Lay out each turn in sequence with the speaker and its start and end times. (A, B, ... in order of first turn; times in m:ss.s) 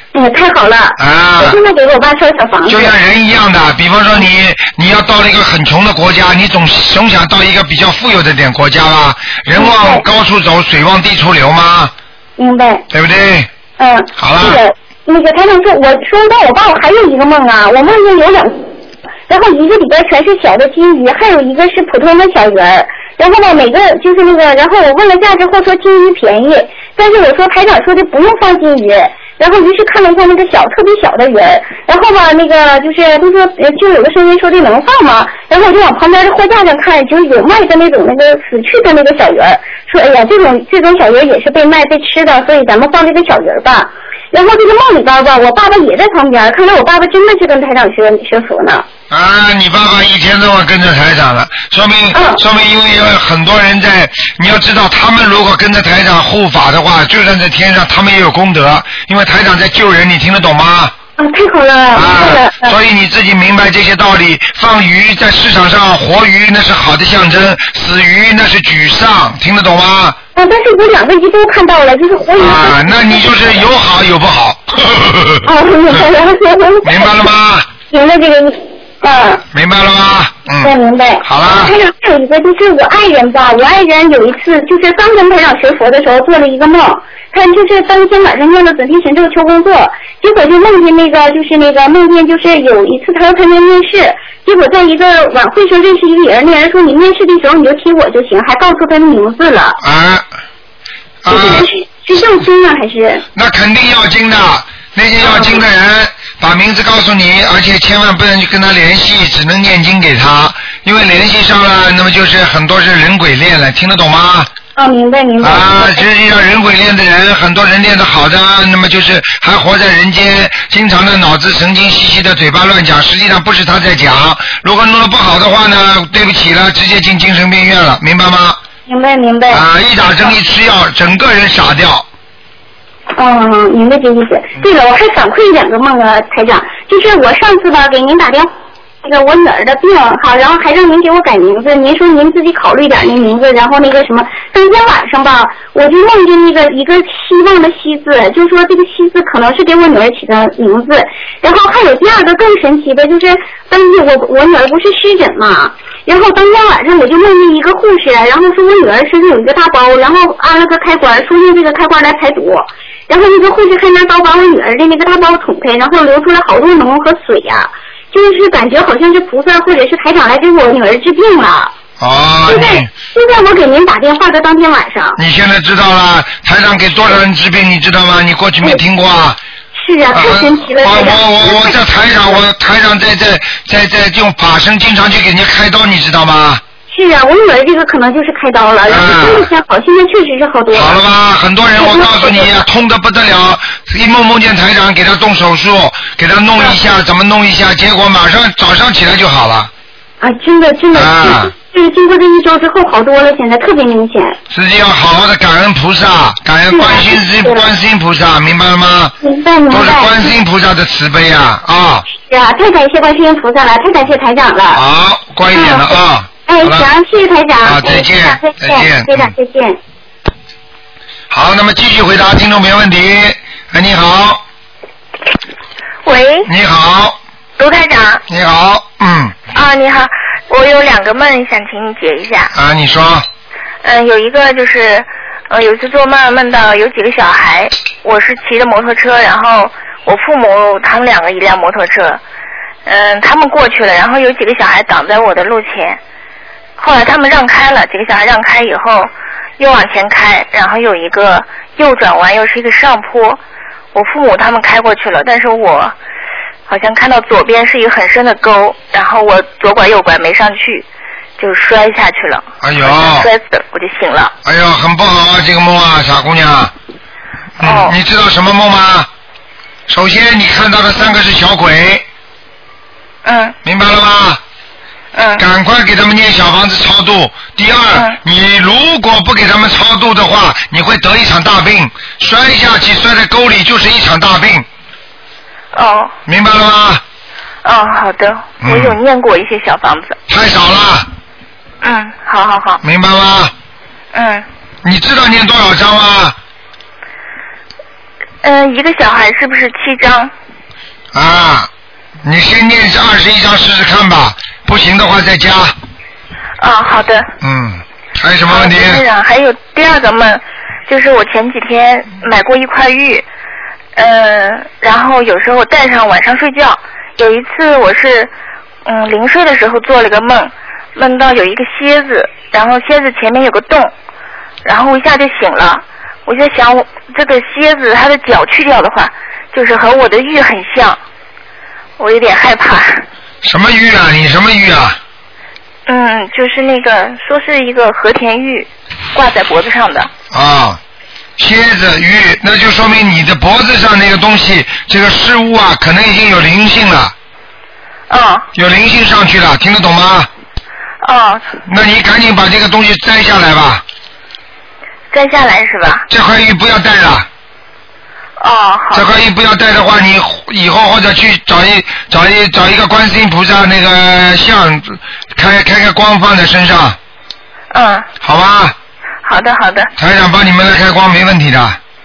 0:00.1-0:02.9 A
0:01.0-0:01.6 B
0:02.7-0:11.9 B
0:09.6-0:10.0 A
0:12.4-0:12.8 A
0:12.9-0:13.5 B
0:13.8-0:18.7 A
0:14.2-0:14.6 B
0:19.3-0:48.8 A
0:49.1-1:00.9 B
0:52.1-0:52.4 A
1:01.2-1:02.7 A
1:01.9-1:10.2 B
1:10.4-1:13.2 A
1:12.4-1:15.4 B
1:15.4-1:17.2 A
1:16.8-1:17.7 B
1:17.9-1:19.4 A
1:19.5-1:20.7 B
1:20.6-1:39.8 A
1:21.2-1:21.7 B
1:39.8-1:40.2 B
1:41.2-1:41.7 B
1:41.3-1:43.2 A
1:43.3-1:54.5 B
1:45.2-1:45.6 A
1:54.8-1:56.0 A
1:55.4-2:08.6 B
2:08.9-2:09.6 A
2:09.5-2:12.0 B
2:13.2-2:18.5 A
2:19.0-2:51.7 A
2:52.0-2:52.9 B
2:52.5-2:55.2 A
2:55.2-2:59.4 B
2:59.7-3:01.8 A
3:00.1-3:06.6 B
3:06.9-3:11.0 A
3:08.9-3:09.5 B
3:10.7-3:19.7 B
3:11.8-3:12.5 A
3:20.2-3:24.4 A
3:20.9-3:21.5 B
3:24.5-3:29.1 B
3:26.7-3:27.7 A
3:29.2-3:30.4 A
3:29.7-3:32.0 B
3:32.2-3:34.8 A
3:34.7-3:36.9 B
3:35.5-3:35.9 A
3:36.5-3:39.8 A
3:37.6-3:39.3 B
3:41.3-3:44.4 B
3:46.0-3:46.5 C
3:46.4-3:47.2 B
3:47.6-3:48.2 C
3:48.3-3:49.4 B
3:49.5-3:52.5 C
3:52.5-3:53.2 B
3:53.8-4:02.2 C
4:02.8-4:06.0 C
4:06.8-4:13.4 C
4:13.9-4:15.9 C
4:16.7-4:20.8 C
4:21.4-4:24.3 C
4:22.6-4:23.3 B
4:24.4-4:26.7 B
4:27.6-4:29.1 B
4:27.6-4:27.9 C
4:29.9-4:32.0 B
4:33.2-4:33.5 C
4:33.6-4:34.4 B
4:35.1-4:35.4 C
4:35.4-4:44.6 B
4:45.7-4:46.1 C
4:46.2-4:47.0 B
4:47.6-4:50.2 C
4:48.6-4:49.0 B
4:50.3-4:51.1 B
4:51.8-4:52.8 C
4:52.8-4:53.5 B
4:54.1-4:54.4 C
4:54.8-4:56.3 B
4:58.4-5:00.3 C
5:01.1-5:01.7 B
5:02.2-5:05.7 B
5:06.6-5:07.3 C
5:07.4-5:09.0 B
5:08.5-5:13.2 C
5:14.0-5:18.3 C
5:18.8-5:23.9 C
5:24.6-5:31.0 C
5:32.0-5:33.0 C
5:33.4-5:35.0 B
5:35.9-5:40.1 C
5:40.3-5:40.8 B
5:41.4-5:47.1 B
5:48.1-5:48.5 C
5:48.5-5:50.3 B
5:51.0-5:51.5 C
5:51.7-5:53.8 B
5:55.1-5:56.0 C
5:56.1-5:57.3 B
5:58.4-5:59.1 C
5:58.9-6:07.0 B
6:07.7-6:08.1 C
6:08.2-6:08.7 B
6:09.2-6:09.9 C
6:10.0-6:11.8 B